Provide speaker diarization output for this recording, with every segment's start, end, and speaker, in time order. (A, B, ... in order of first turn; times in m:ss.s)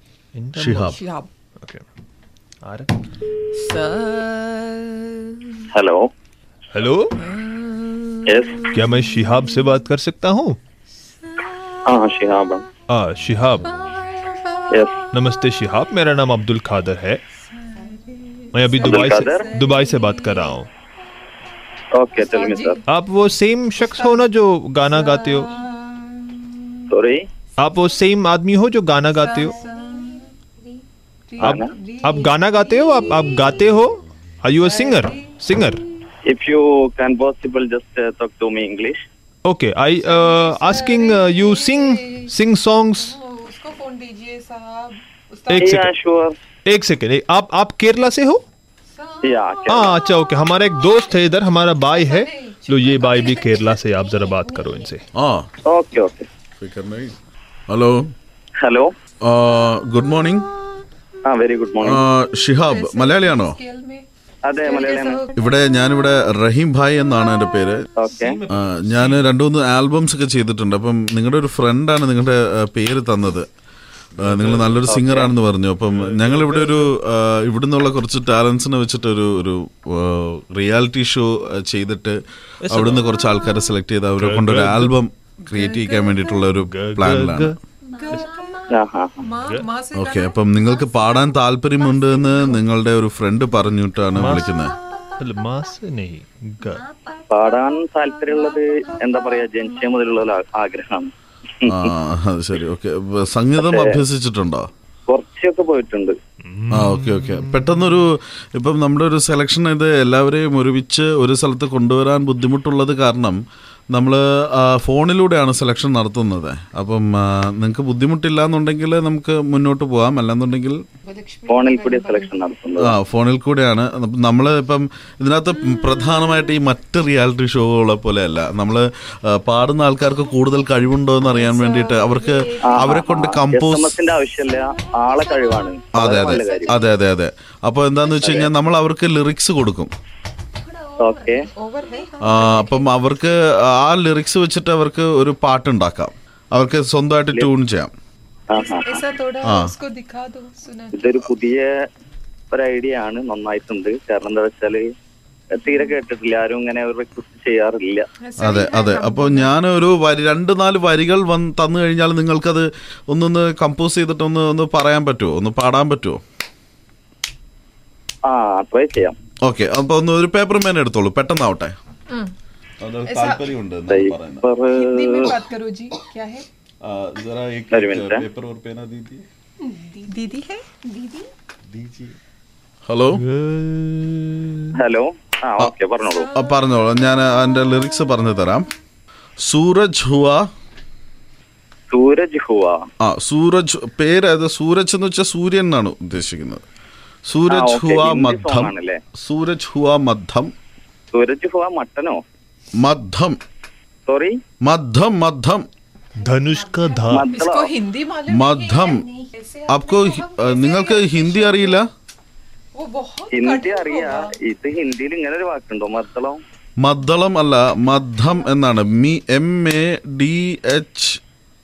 0:00.3-0:01.0 A
0:00.6-0:01.0 B
0:00.8-0:01.3 C
0:02.6-0:02.9 A
0:03.5-0:05.6 C
0:05.7-0:06.1 D
0:06.7-0:07.2 A
0:07.2-0:09.0 C
0:08.2-0:08.6 D
0:08.7-0:10.6 A
0:11.8-0:12.6 D
0:12.9-0:13.7 A
0:13.8-0:14.6 C
0:14.7-0:14.9 D
0:15.1-0:17.2 A
0:17.7-0:20.5 C
0:18.5-0:20.7 A
0:18.8-0:19.5 D
0:21.9-0:22.8 D
0:22.2-0:22.8 C
0:22.9-0:25.5 A
0:25.0-0:26.5 C
0:26.9-0:27.3 D
0:27.6-0:29.6 A
0:29.1-0:30.3 C
0:31.3-0:33.6 C
0:31.4-0:35.8 A
0:31.4-0:31.7 D
0:34.6-0:35.4 C
0:36.3-0:39.0 D
0:39.4-0:43.1 A
0:40.0-0:42.3 C
0:43.0-0:45.7 C
0:45.5-0:45.9 A
0:45.6-0:46.3 D
0:46.6-0:48.4 A
0:48.9-0:49.8 C
0:49.2-0:50.0 D
0:49.7-0:55.0 A
0:51.9-0:53.8 C
0:55.1-0:55.5 B
0:55.6-0:56.3 D
0:56.6-0:57.1 B
0:57.7-0:58.1 B
0:58.6-0:58.9 D
0:59.2-1:00.5 B
1:01.3-1:02.0 D
1:01.8-1:03.6 B
1:02.6-1:05.4 C
1:04.4-1:05.2 D
1:05.3-1:07.8 B
1:08.0-1:08.4 D
1:08.1-1:09.3 A
1:08.5-1:13.5 B
1:14.2-1:14.8 A
1:14.2-1:27.5 B
1:14.9-1:15.3 D
1:15.9-1:16.9 A
1:22.6-1:23.1 A
1:24.2-1:25.0 A
1:25.5-1:26.2 C
1:26.6-1:27.6 A
1:28.0-1:28.7 C
1:28.7-1:29.2 D
1:29.2-1:32.6 C
1:29.9-1:34.8 B
1:34.1-1:34.6 A
1:35.2-1:36.8 A
1:37.3-1:41.9 D
1:41.7-1:44.7 B
1:43.6-1:44.0 D
1:45.1-1:46.2 D
1:46.4-1:48.0 A
1:46.7-1:53.4 B
1:53.9-2:00.8 B
2:01.0-2:02.3 C
2:01.5-2:03.0 D
2:02.8-2:13.9 B
2:11.4-2:13.3 C
2:12.6-2:16.8 D
2:15.9-2:19.9 B
2:16.3-2:16.8 C
2:18.2-2:18.5 D
2:21.0-2:21.5 D
2:21.5-2:22.8 C
2:22.2-2:27.9 B
2:28.5-2:29.0 D
2:28.5-2:31.2 C
2:29.4-2:29.7 B
2:30.9-2:31.7 D
2:32.5-2:34.8 D
2:35.5-2:38.0 D
2:38.2-2:39.5 C
2:38.4-2:46.2 B
2:48.3-2:49.1 D
2:49.4-2:51.7 B
2:52.8-2:54.4 B
2:53.0-2:53.4 C
2:53.9-2:55.3 D
2:54.7-2:56.4 C
2:56.8-2:59.2 B
2:57.7-2:58.2 D
2:59.6-3:01.3 C
3:02.9-3:03.2 B
3:03.1-3:04.7 A
3:04.8-3:06.3 D
3:06.3-3:08.7 B
3:09.4-3:10.4 B
3:11.9-3:12.8 D
3:13.0-3:16.6 B
3:17.3-3:20.5 B
3:17.5-3:19.0 D
3:21.1-3:22.2 D
3:22.8-3:23.4 B
3:24.0-3:24.3 D
3:24.6-3:25.6 B
3:26.2-3:27.3 A
3:26.2-3:31.8 C
3:27.1-3:27.7 D
3:28.3-3:29.1 B
3:29.7-3:31.9 B
3:32.8-3:34.3 C
3:33.3-3:36.4 D
3:36.8-3:41.2 B